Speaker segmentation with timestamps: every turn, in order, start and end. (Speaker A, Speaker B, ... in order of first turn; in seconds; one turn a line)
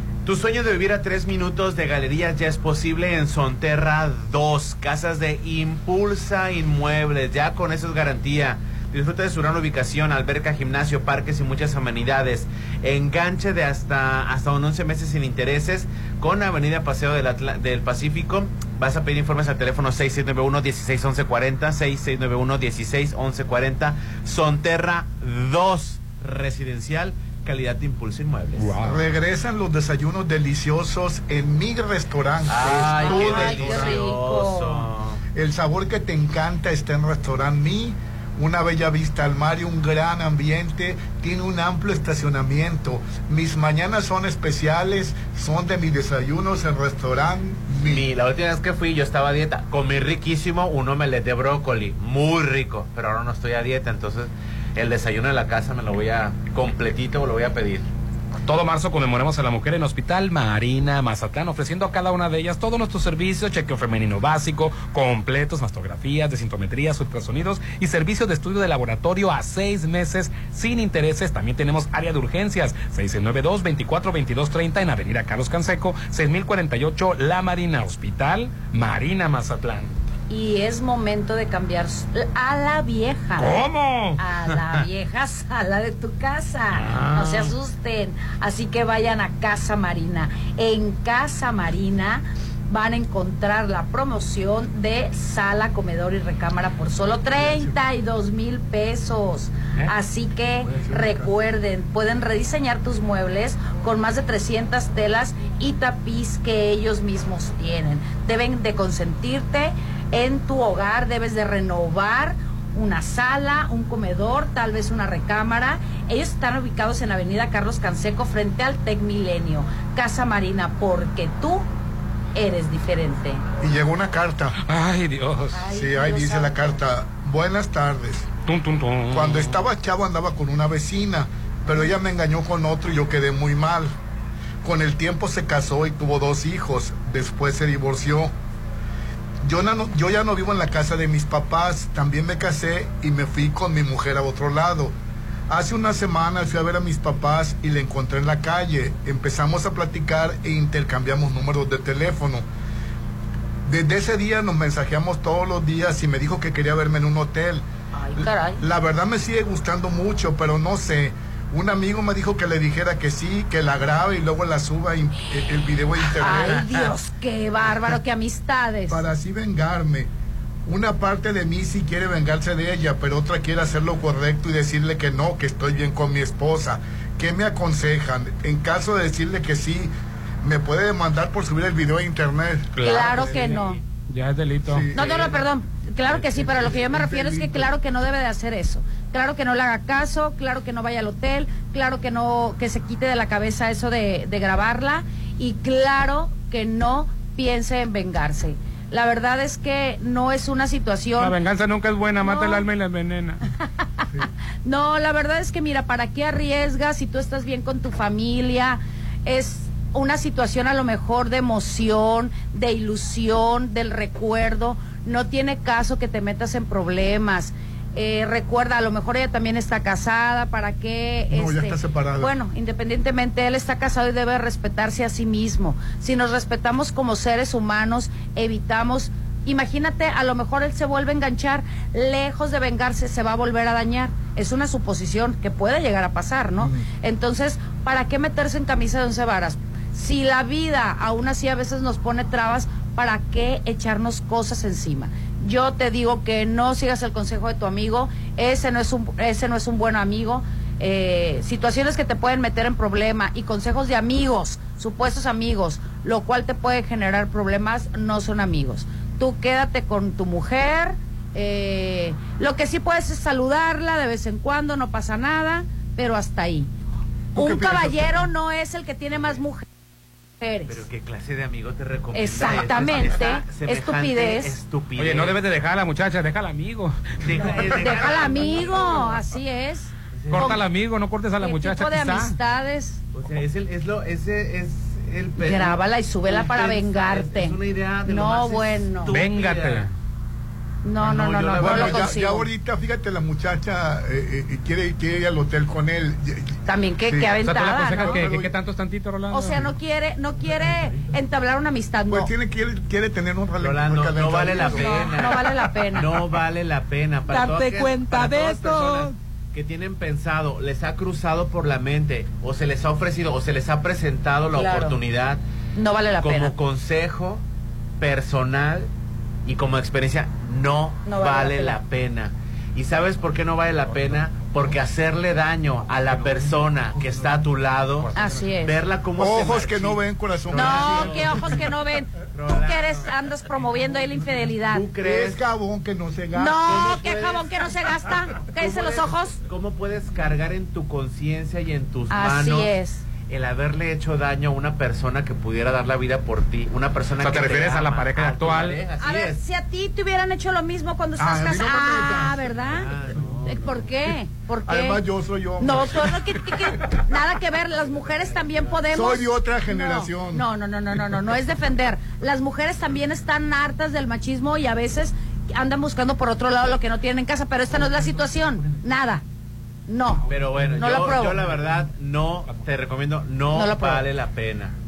Speaker A: 0.2-28.8
Speaker B: 28.6-29.0
Speaker C: 28.8-34.0
Speaker A: 32.5-35.2
Speaker D: 33.0-34.9
Speaker C: 35.3-48.1
Speaker A: 47.9-57.9
Speaker B: 58.5-80.1
Speaker D: 80.3-83.6
Speaker B: 83.4-84.2
Speaker D: 84.2-121.7
Speaker B: 86.7-87.5
Speaker C: 97.3-97.8
Speaker C: 100.6-101.3
Speaker D: 122.3-123.4
Speaker C: 123.6-124.6
Speaker B: 124.7-125.6
Speaker D: 125.5-126.8
Speaker C: 125.7-128.3
Speaker B: 128.5-129.6
Speaker C: 129.1-133.9
Speaker C: 134.6-138.3
Speaker C: 139.4-144.9
Speaker C: 145.5-152.4
Speaker C: 153.7-157.7
Speaker D: 158.0-158.6
Speaker C: 158.2-166.7
Speaker D: 166.2-169.0
Speaker A: 166.3-166.8
Speaker C: 168.9-170.1
Speaker C: 170.7-183.6
Speaker B: 182.8-183.6
Speaker D: 182.8-183.8
Speaker B: 184.1-184.9
Speaker C: 184.7-185.5
Speaker D: 184.9-201.3
Speaker C: 186.1-187.7
Speaker B: 201.2-203.4
Speaker D: 202.2-202.6
Speaker D: 204.7-266.7
Speaker C: 221.3-222.3
Speaker C: 236.6-236.9
Speaker C: 267.4-268.2
Speaker D: 267.4-269.7
Speaker D: 270.4-270.8
Speaker A: 270.7-275.4
Speaker D: 272.1-274.6
Speaker B: 275.0-277.9
Speaker A: 277.2-279.2
Speaker D: 277.7-280.6
Speaker A: 280.2-280.6
Speaker B: 280.3-282.4
Speaker D: 281.4-283.0
Speaker A: 283.1-289.9
Speaker D: 285.4-289.2
Speaker B: 289.1-289.9
Speaker D: 290.8-292.5
Speaker A: 291.0-292.2
Speaker C: 291.6-298.5
Speaker D: 296.7-298.2
Speaker B: 297.4-299.7
Speaker D: 299.3-302.3
Speaker C: 302.1-305.3
Speaker A: 303.6-315.4
Speaker D: 304.6-306.1
Speaker B: 307.3-309.1
Speaker D: 314.5-315.0
Speaker D: 315.8-316.5
Speaker A: 316.2-317.4
Speaker A: 318.0-318.9
Speaker A: 319.4-331.7
Speaker D: 321.1-321.8
Speaker D: 328.1-328.7
Speaker C: 329.2-331.6
Speaker D: 330.5-334.9
Speaker A: 332.3-333.1
Speaker A: 334.7-335.4
Speaker C: 335.0-337.0
Speaker D: 336.4-339.4
Speaker A: 336.6-337.8
Speaker A: 338.6-342.7
Speaker D: 342.1-343.0
Speaker A: 343.3-349.4
Speaker B: 347.2-348.8
Speaker D: 349.0-352.9
Speaker C: 351.2-353.3
Speaker A: 352.5-353.9
Speaker D: 353.4-355.0
Speaker C: 354.7-356.4
Speaker D: 355.6-369.2
Speaker A: 357.8-358.7
Speaker C: 358.9-360.4
Speaker D: 369.9-371.5
Speaker A: 370.3-374.8
Speaker D: 373.5-374.1